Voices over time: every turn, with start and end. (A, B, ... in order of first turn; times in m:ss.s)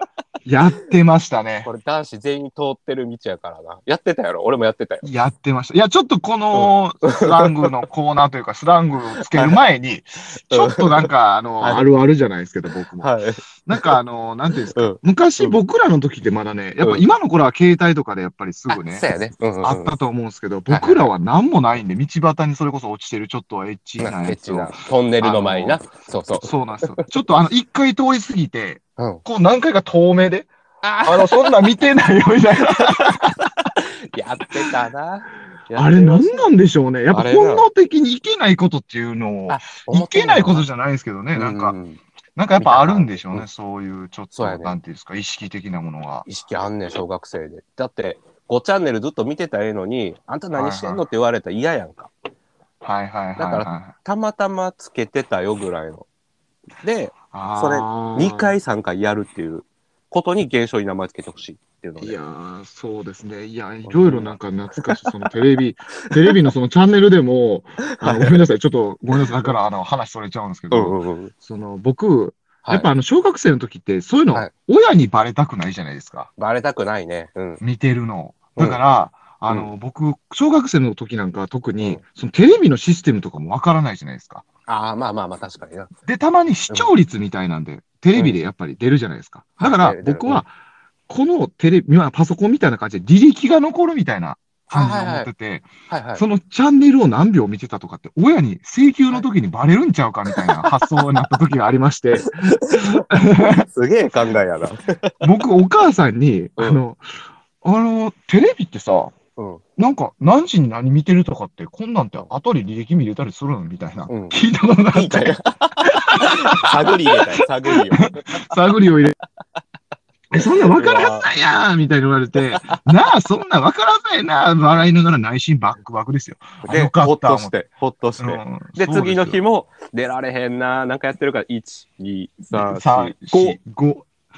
0:00.4-0:01.7 A
0:01.6-0:05.1 B
0:05.0-0:19.1 A
0:06.5-0:07.7 B
0:09.3-0:09.6 B
0:10.5-0:11.9 B
0:13.0-0:14.0 B
0:14.7-0:15.6 B
0:18.7-0:19.9 B
0:19.6-0:25.9 A
0:20.7-0:21.1 B
0:24.0-0:27.1 B
0:26.4-0:30.5 A
0:29.0-0:29.2 B
0:30.8-0:31.7 B
0:31.0-0:33.7 A
0:33.8-0:36.5 B
0:35.7-0:41.8 A
0:37.1-0:37.7 B
0:39.5-0:40.7 B
0:41.3-0:42.0 B
0:42.4-0:46.3 A
0:42.6-0:43.5 B
0:44.3-0:44.8 B
0:46.3-0:52.1 B
0:50.6-0:51.0 A
0:52.8-0:53.9 A
0:53.4-0:56.1 B
0:56.8-1:02.2 B
0:57.3-0:58.6 A
1:02.0-1:16.3 A
1:03.8-1:05.0 B
1:07.9-1:08.4 B
1:10.7-1:11.3 B
1:16.4-1:17.6 B
1:17.6-1:24.4 A
1:24.7-1:25.9 B
1:26.1-1:30.5 A
1:29.6-1:30.4 B
1:31.1-1:43.7 A
1:34.7-1:35.3 B
1:35.9-1:36.2 B
1:40.3-1:40.7 B
1:42.2-1:45.2 B
1:45.2-1:47.1 A
1:47.6-1:49.2 A
1:49.4-1:49.6 B
1:49.8-1:57.2 A
1:54.1-1:54.4 B
1:54.9-1:58.5 B
1:57.7-1:59.2 A
2:00.3-2:07.6 A
2:00.4-2:01.3 B
2:06.6-2:13.6 B
2:08.2-2:09.4 A
2:12.5-2:14.1 A